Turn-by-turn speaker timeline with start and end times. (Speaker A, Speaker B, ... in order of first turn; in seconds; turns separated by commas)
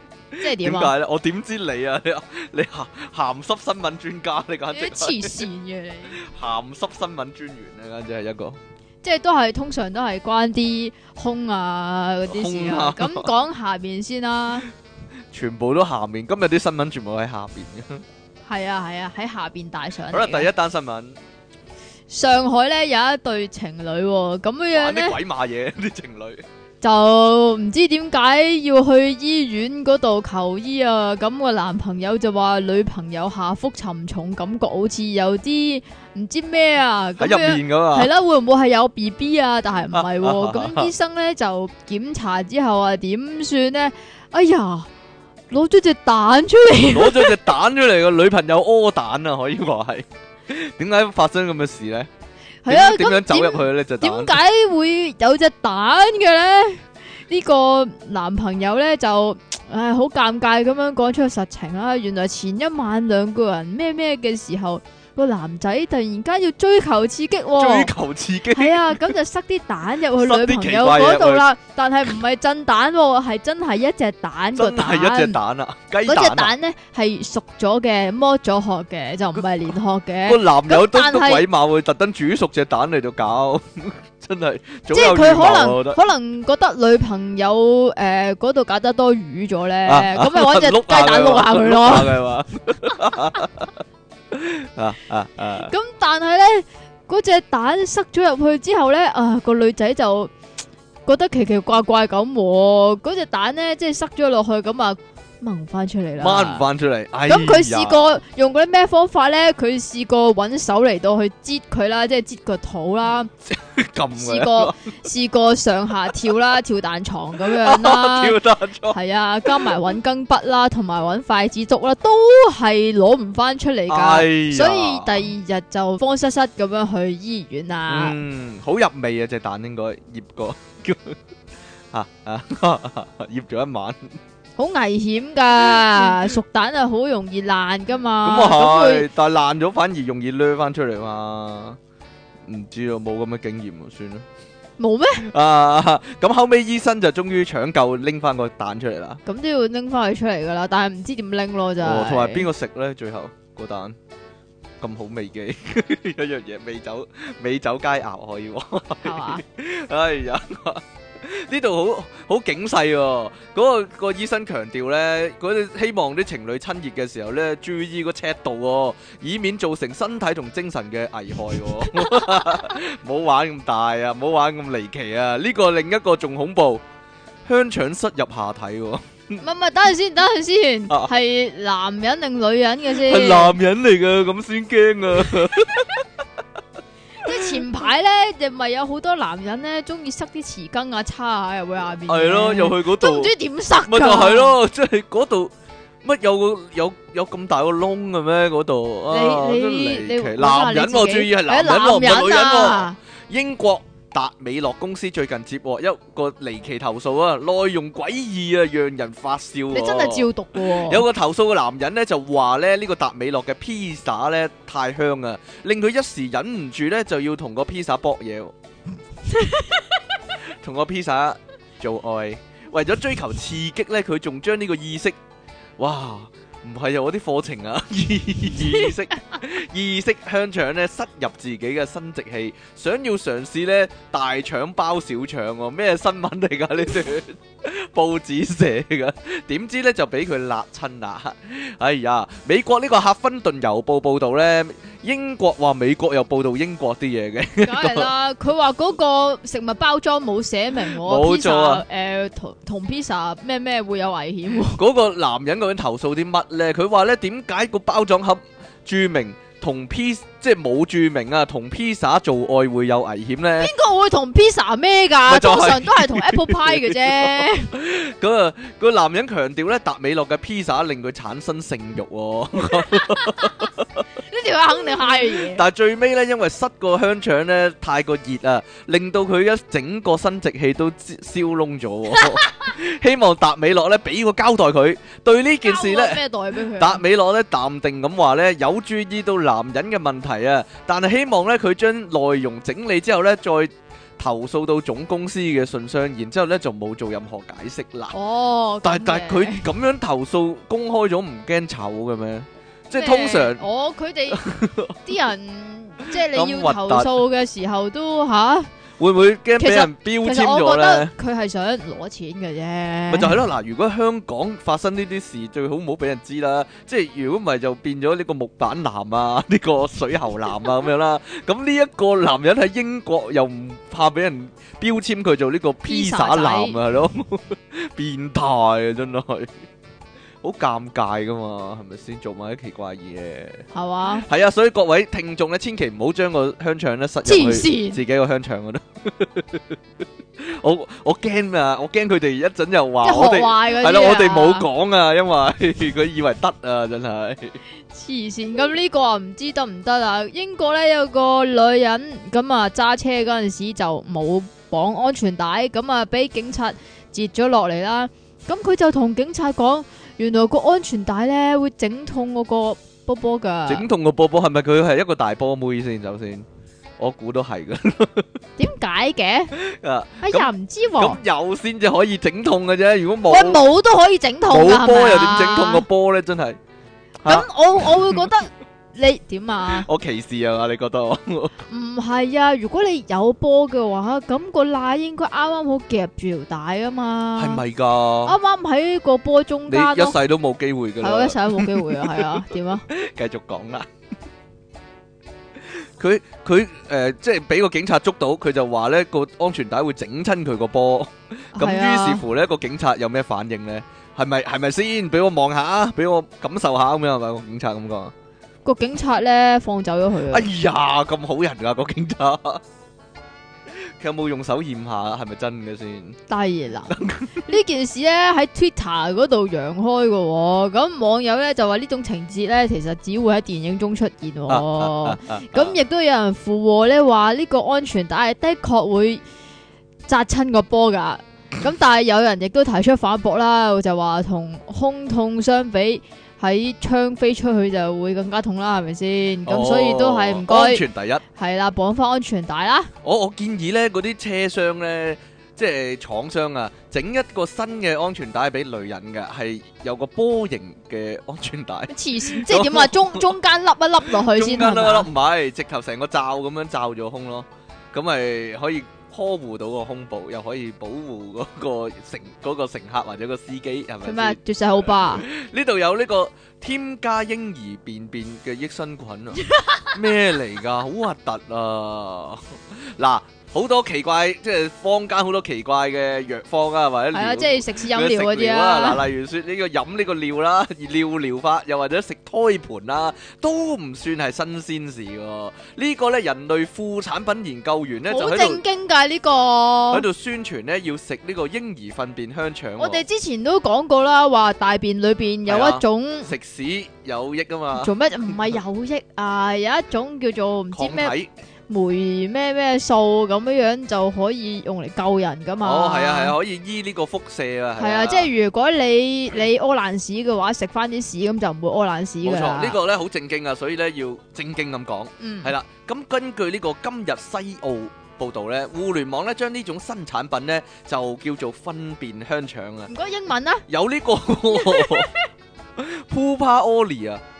Speaker A: 0.3-5.4, Speaker B: 0.4-0.9, Speaker B: 4.7-6.2, Speaker A: 6.2-8.6, Speaker B: 9.0-14.7, Speaker A: 12.3-13.3, Speaker A: 15.3-18.0, Speaker B: 18.5-20.5, Speaker A: 20.1-21.2, Speaker B: 22.1-25.2, Speaker A: 24.7-26.4, Speaker B: 26.8-44.9, Speaker A: 37.2-38.1, Speaker A: 39.9-40.9, Speaker B: 45.5-47.4, Speaker A: 46.9-52.1, Speaker B: 52.6-67.9, Speaker A: 52.7-54.4, Speaker A: 67.5-69.1, Speaker B: 68.5-75.4, Speaker A: 70.2-71.5, Speaker A: 74.5-76.5, Speaker B: 76.0-81.5, Speaker A: 80.2-86.0, Speaker B: 84.9-92.2, Speaker A: 89.8-93.7, Speaker A: 94.3-95.7, Speaker B: 95.6-100.3, Speaker B: 101.0-106.7, Speaker A: 106.2-108.0, Speaker B: 107.3-113.3, Speaker A: 113.5-114.8, Speaker B: 114.2-118.4, Speaker A: 117.4-119.7, Speaker B: 118.9-128.2, Speaker A: 123.9-125.2, Speaker A: 127.9-131.2, Speaker A: 131.9-134.2, Speaker B: 134.6-139.1, Speaker A: 135.7-136.2, Speaker A: 138.2-141.8, Speaker A: 142.4-144.2, Speaker B: 144.8-145.3, Speaker A: 145.3-149.2, Speaker B: 149.2-152.5, Speaker A: 151.8-154.0, Speaker A: 154.8-176.8, Speaker B: 159.0-159.4, Speaker A: 177.4-179.4, Speaker B: 179.4-183.5, Speaker A: 182.9-186.0, Speaker B: 187.2-194.6, Speaker A: 187.3-187.6, Speaker A: 192.1-193.3, Speaker A: 193.8-195.5, Speaker A: 196.0-218.5, Speaker B: 199.1-202.9, Speaker B: 209.7-211.1, Speaker B: 219.3-219.8, Speaker A: 220.6-225.2, Speaker A: 225.8-248.1, Speaker B: 247.6-254.8, Speaker A: 250.8-251.8, Speaker A: 254.7-263.7, Speaker B: 263.6-267.7, Speaker A: 265.3-274.0, Speaker B: 272.8-275.6, Speaker A: 275.3-286.2, Speaker B: 285.6-287.0, Speaker A: 286.8-298.1, Speaker B: 298.1-299.7, Speaker A: 298.8-303.6, Speaker B: 302.9-304.4, Speaker A: 304.3-304.9, Speaker B: 305.0-308.7, Speaker A: 306.2-307.2, Speaker A: 309.0-311.1, Speaker B: 309.6-313.4, Speaker A: 313.1-329.5, Speaker B: 325.8-326.8, Speaker A: 330.4-333.6, Speaker B: 333.7-334.3, Speaker A: 334.2-339.8, Speaker B: 337.2-338.0, Speaker A: 340.4-347.6, Speaker B: 343.0-344.7, Speaker B: 347.9-363.9, Speaker A: 363.7-366.4, Speaker A: 367.0-368.3, Speaker B: 368.6-369.5, Speaker A: 369.6-373.6, Speaker B: 370.2-371.2, Speaker B: 373.3-375.8, Speaker A: 374.5-376.6, Speaker B: 377.2-379.9, Speaker A: 377.2-378.3, Speaker A: 379.7-381.6, Speaker B: 381.7-387.6, Speaker A: 387.4-388.3, Speaker B: 388.2-390.2, Speaker A: 389.7-392.3, Speaker B: 391.0-392.8, Speaker A: 392.9-393.9, Speaker A: 395.7-408.1, Speaker B: 401.5-402.2, Speaker B: 408.6-410.5, Speaker A: 410.3-412.6, Speaker A: 413.8-416.2, Speaker B: 416.3-429.2, Speaker A: 416.9-417.4, Speaker A: 424.5-425.8, Speaker B: 430.1-440.8, Speaker A: 439.4-441.2, Speaker B: 441.3-442.9, Speaker A: 443.0-453.3, Speaker B: 451.9-455.1, Speaker A: 454.1-464.4, Speaker B: 464.0-465.2, Speaker A: 465.0-469.4, Speaker B: 469.4-470.0, Speaker A: 469.9-488.6, Speaker B: 477.1-479.0, Speaker B: 488.1-490.0, Speaker A: 489.9-493.0, Speaker B: 492.8-496.3, Speaker A: 495.5-498.5, Speaker B: 497.7-501.1, Speaker A: 500.7-501.3, Speaker B: 501.7-506.4, Speaker A: 505.6-508.3, Speaker B: 507.8-512.8, Speaker A: 512.2-522.9, Speaker B: 515.2-515.5, Speaker B: 522.9-523.6, Speaker A: 523.7-525.1, Speaker B: 524.5-525.3, Speaker A: 525.8-527.2